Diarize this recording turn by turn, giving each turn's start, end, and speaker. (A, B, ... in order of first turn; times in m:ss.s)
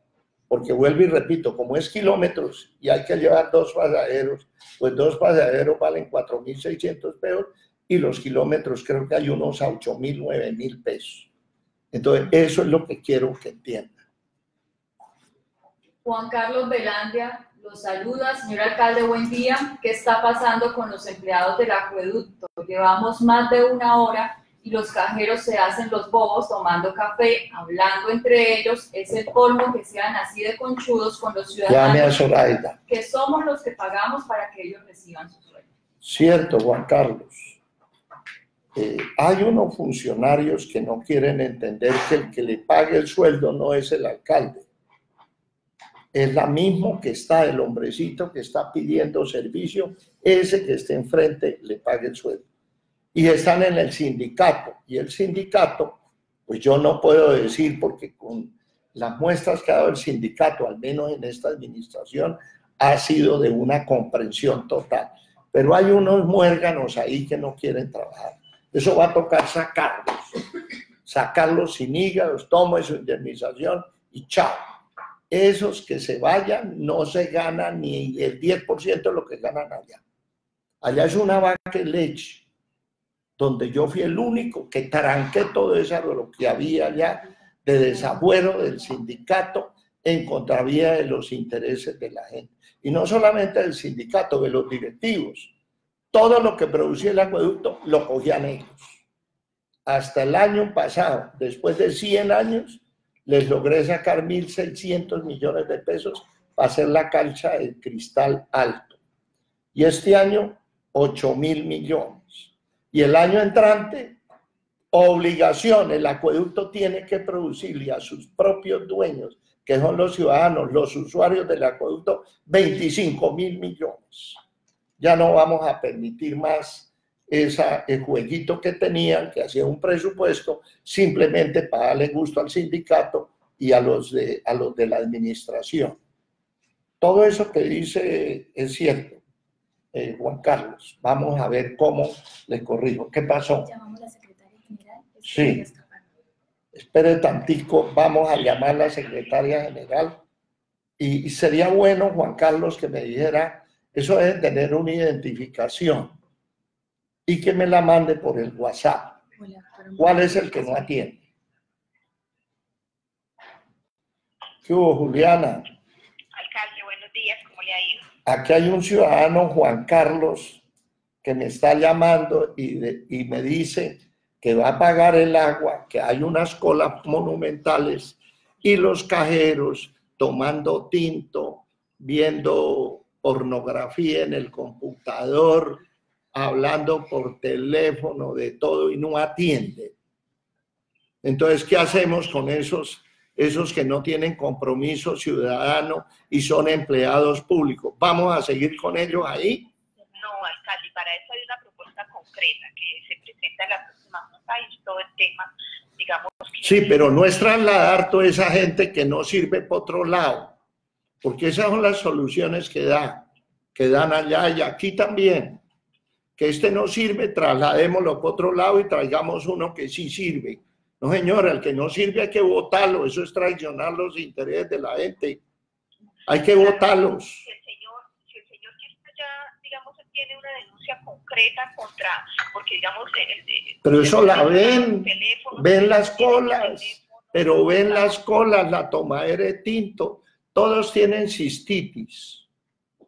0:00.5-0:11.3 A
0:11.9-0:14.0 A
0:16.0-0:32.2 B
0:31.7-0:32.8 A
0:32.9-0:35.7 B
0:36.0-0:37.6 A
0:38.8-0:44.7 A
0:46.1-0:52.4 A
0:53.1-1:10.4 A
1:11.1-1:14.7 A
1:15.3-1:20.0 A
1:20.8-1:22.4 A
1:23.4-1:35.5 A
1:36.1-1:39.0 A
1:39.9-1:49.0 A
1:49.7-1:54.2 A
1:54.9-2:04.4 A
2:05.0-2:16.0 A
2:17.0-2:19.2 A
2:19.9-2:23.7 A
2:23.6-2:26.0 C
2:25.2-2:25.7 A
2:26.7-2:30.2 A
2:31.0-2:36.2 A
2:37.3-2:39.2 A
2:39.4-2:41.1 C
2:40.0-2:41.2 A
2:44.6-2:45.7 A
2:46.3-2:48.1 D
2:48.3-2:50.6 A
2:51.2-3:05.8 A
3:06.3-3:09.9 A
3:11.2-3:19.7 A
3:20.2-3:27.5 D
3:26.6-3:30.6 A
3:31.2-3:35.6 A
3:36.4-3:45.4 A
3:46.3-3:47.4 A
3:46.4-3:58.2 D
3:53.8-4:02.4 A